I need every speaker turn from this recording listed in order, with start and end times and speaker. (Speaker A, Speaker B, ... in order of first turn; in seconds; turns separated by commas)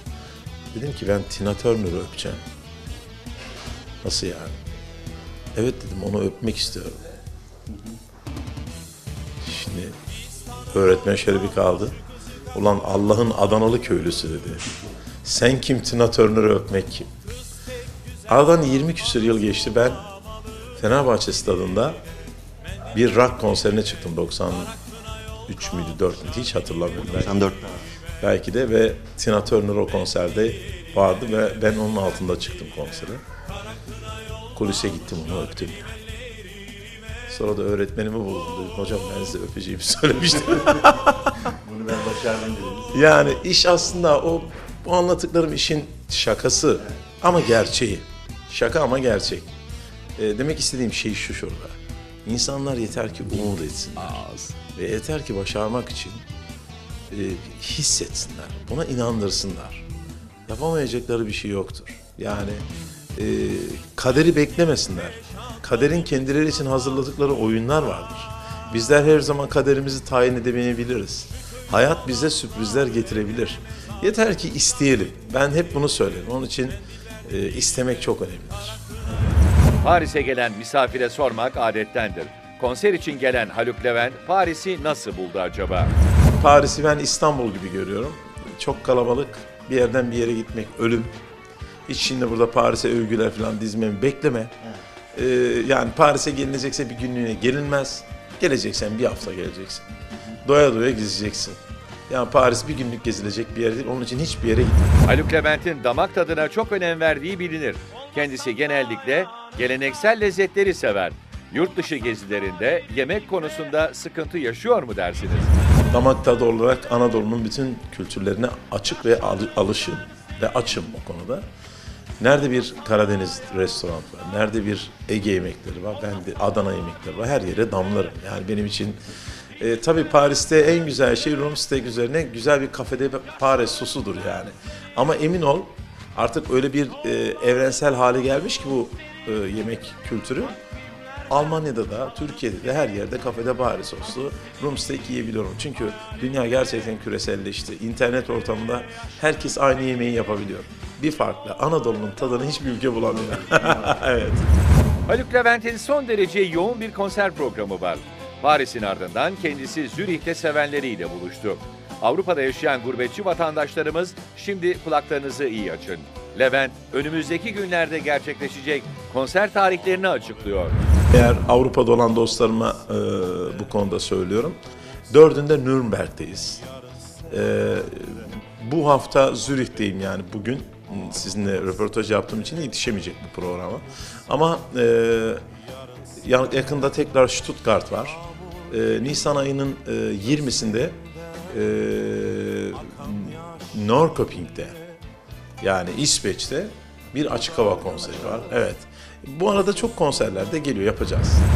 Speaker A: 0.7-2.4, Speaker A: 4.0-4.5, Speaker A: 5.5-7.0, Speaker A: 9.4-9.9, Speaker A: 10.7-12.0, Speaker A: 12.5-14.7, Speaker A: 15.2-17.1, Speaker A: 18.3-20.0, Speaker A: 20.8-22.0, Speaker A: 22.9-24.7, Speaker A: 25.5-27.4, Speaker B: 27.1-27.8, Speaker A: 28.2-33.2, Speaker A: 34.5-36.0, Speaker A: 37.3-41.5, Speaker B: 41.5-43.0, Speaker A: 42.9-49.5, Speaker A: 50.2-54.2, Speaker C: 54.0-54.5, Speaker A: 54.7-56.2, Speaker A: 57.1-59.9, Speaker A: 60.5-62.6, Speaker A: 63.1-78.8, Speaker C: 79.8-85.9, Speaker A: 86.4-91.1, Speaker A: 91.9-94.5, Speaker A: 95.1-99.9, Speaker A: 100.4-105.0, Speaker C: 105.0-115.5, Speaker A: 115.9-121.5, Speaker A: 122.2-129.0, Speaker A: 129.6-140.6, Speaker A: 141.3-154.4, Speaker B: 153.3-153.9, Speaker C: 155.1-170.8, Speaker A: 171.1-174.6, Speaker A: 175.1-176.6, Speaker A: 177.3-185.4, Speaker A: 186.2-191.0, Speaker A: 191.5-194.8, Speaker A: 195.6-201.4